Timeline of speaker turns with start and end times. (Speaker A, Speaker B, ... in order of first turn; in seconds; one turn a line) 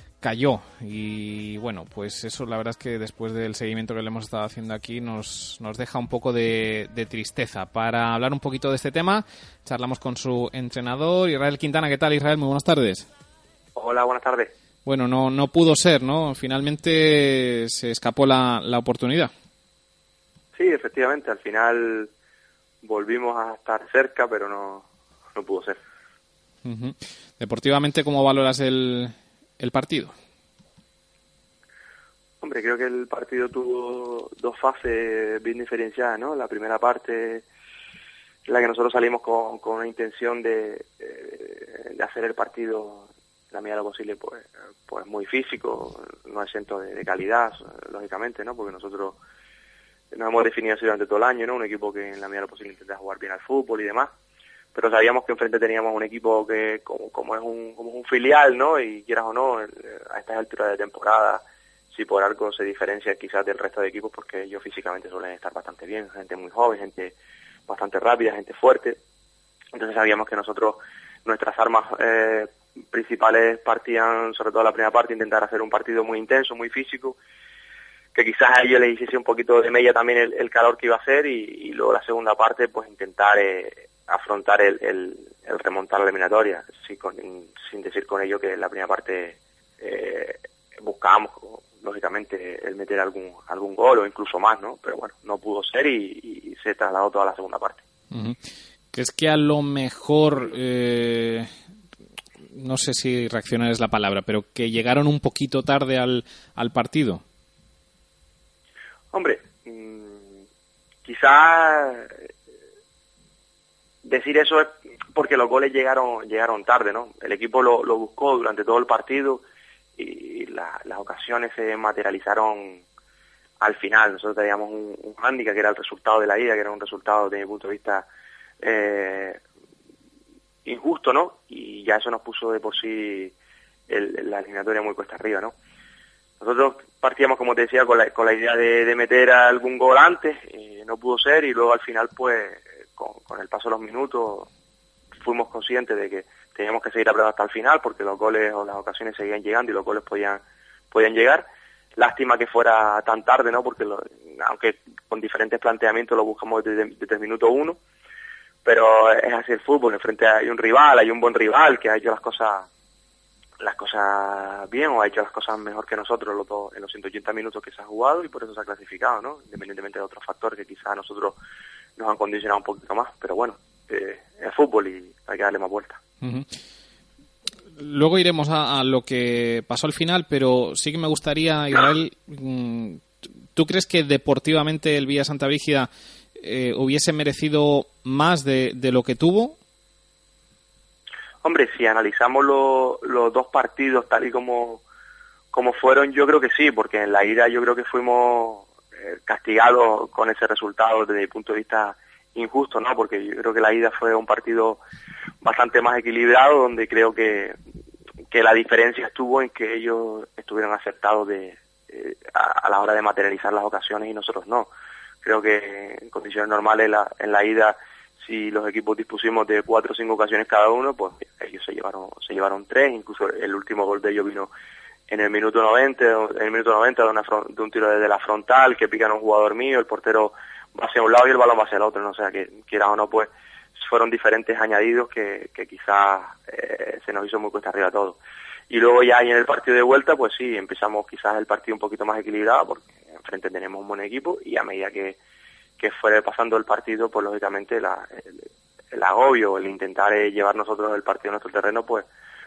Speaker A: 0.2-13.1
Speaker B: 13.8-14.5
Speaker A: 14.8-19.3
Speaker B: 20.6-22.1
Speaker B: 22.8-25.8
Speaker A: 26.6-30.1
Speaker B: 32.4-37.5
Speaker B: 38.5-49.2
Speaker B: 50.1-54.1
Speaker B: 54.7-67.2
Speaker B: 67.7-69.0
Speaker B: 69.7-77.2
Speaker B: 78.1-97.8
Speaker A: 98.1-98.4
Speaker A: 98.9-101.5
Speaker A: 102.5-107.2
Speaker B: 109.1-110.4
Speaker B: 111.0-112.3
Speaker B: 114.0-119.5
Speaker B: 120.0-122.8
Speaker B: 123.6-128.1
Speaker B: 128.6-129.4
Speaker B: 130.7-133.3
Speaker B: 133.9-135.6
Speaker B: 136.4-144.5
Speaker B: 145.2-157.8
Speaker B: 158.7-162.7
Speaker B: 163.6-171.4
Speaker B: 172.0-176.0
Speaker A: 176.2-176.5
Speaker A: 177.8-189.6
Speaker B: 191.4-194.8
Speaker B: 195.5-204.8
Speaker B: 205.4-207.6
Speaker B: 208.3-214.7
Speaker B: 215.2-224.5
Speaker B: 225.1-238.2
Speaker B: 238.7-245.2
Speaker B: 245.8-252.1